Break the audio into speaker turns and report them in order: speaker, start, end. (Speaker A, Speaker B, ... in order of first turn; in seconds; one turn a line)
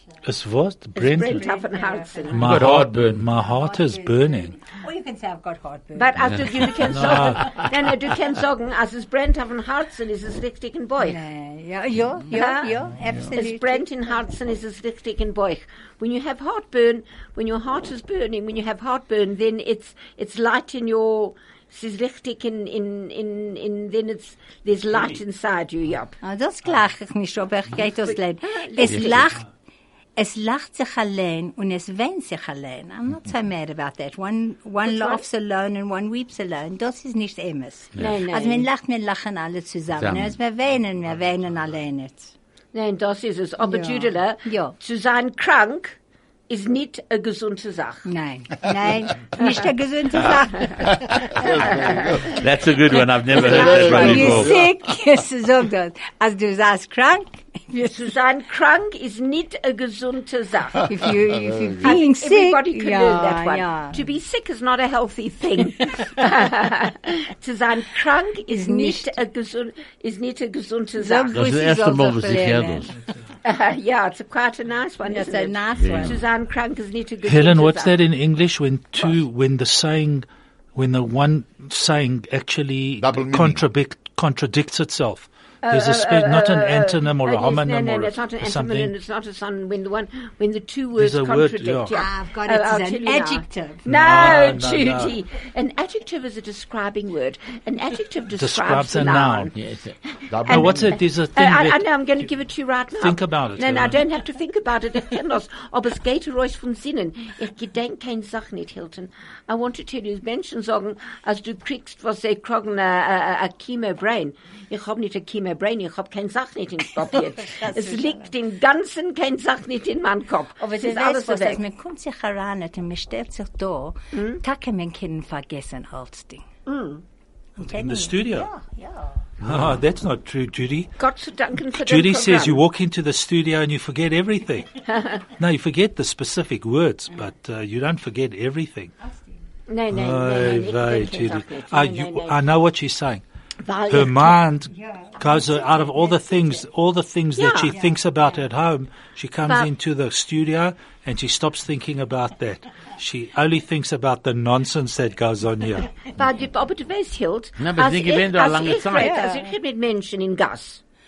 Speaker A: 0.2-1.4
Speaker B: 1.0-2.6
Speaker C: 1.2-2.5
Speaker A: 2.3-4.5
Speaker D: 2.4-3.2
Speaker C: 3.4-6.4
Speaker B: 6.0-11.2
Speaker D: 6.2-7.7
Speaker A: 6.8-7.6
Speaker C: 11.0-13.9
Speaker B: 12.3-12.8
Speaker B: 13.3-26.1
Speaker C: 26.2-29.4
Speaker B: 27.8-29.3
Speaker D: 28.8-29.3
Speaker C: 30.2-42.3
Speaker B: 34.8-35.2
Speaker D: 38.0-38.2
Speaker B: 38.0-38.7
Speaker D: 39.9-40.4
Speaker B: 42.7-46.0
Speaker C: 43.6-44.8
Speaker B: 46.5-48.1
Speaker C: 48.0-51.5
Speaker E: 51.3-52.4
Speaker B: 51.4-52.2
Speaker D: 52.2-54.5
Speaker E: 53.4-54.7
Speaker B: 53.4-54.5
Speaker C: 53.4-58.0
Speaker B: 57.8-61.1
Speaker C: 60.9-64.0
Speaker E: 61.3-61.9
Speaker B: 61.8-71.4
Speaker C: 68.5-69.2
Speaker C: 71.0-72.9
Speaker D: 71.3-72.9
Speaker B: 73.4-78.0
Speaker C: 75.0-76.2
Speaker D: 75.8-76.2
Speaker A: 77.2-88.9
Speaker E: 83.0-83.6
Speaker B: 85.6-99.5
Speaker A: 91.0-91.9
Speaker C: 91.9-93.9
Speaker A: 93.9-95.2
Speaker A: 98.4-99.5
Speaker D: 99.5-100.0
Speaker E: 100.3-100.9
Speaker A: 100.5-101.8
Speaker B: 100.5-121.6
Speaker A: 103.0-104.0
Speaker C: 117.0-118.3
Speaker C: 120.6-126.5
Speaker B: 124.1-124.4
Speaker B: 126.7-127.0
Speaker C: 127.6-129.2
Speaker A: 127.6-128.5
Speaker A: 129.4-130.9
Speaker B: 131.0-132.6
Speaker A: 131.7-134.7
Speaker B: 134.9-135.2
Speaker A: 135.4-138.9
Speaker C: 139.0-139.3
Speaker B: 139.7-142.4
Speaker A: 139.9-143.2
Speaker B: 143.6-144.4
Speaker A: 143.9-156.1
Speaker C: 144.7-146.7
Speaker B: 147.4-147.7
Speaker C: 147.7-148.4
Speaker B: 156.1-160.8
Speaker D: 157.6-159.2
Speaker C: 158.9-159.5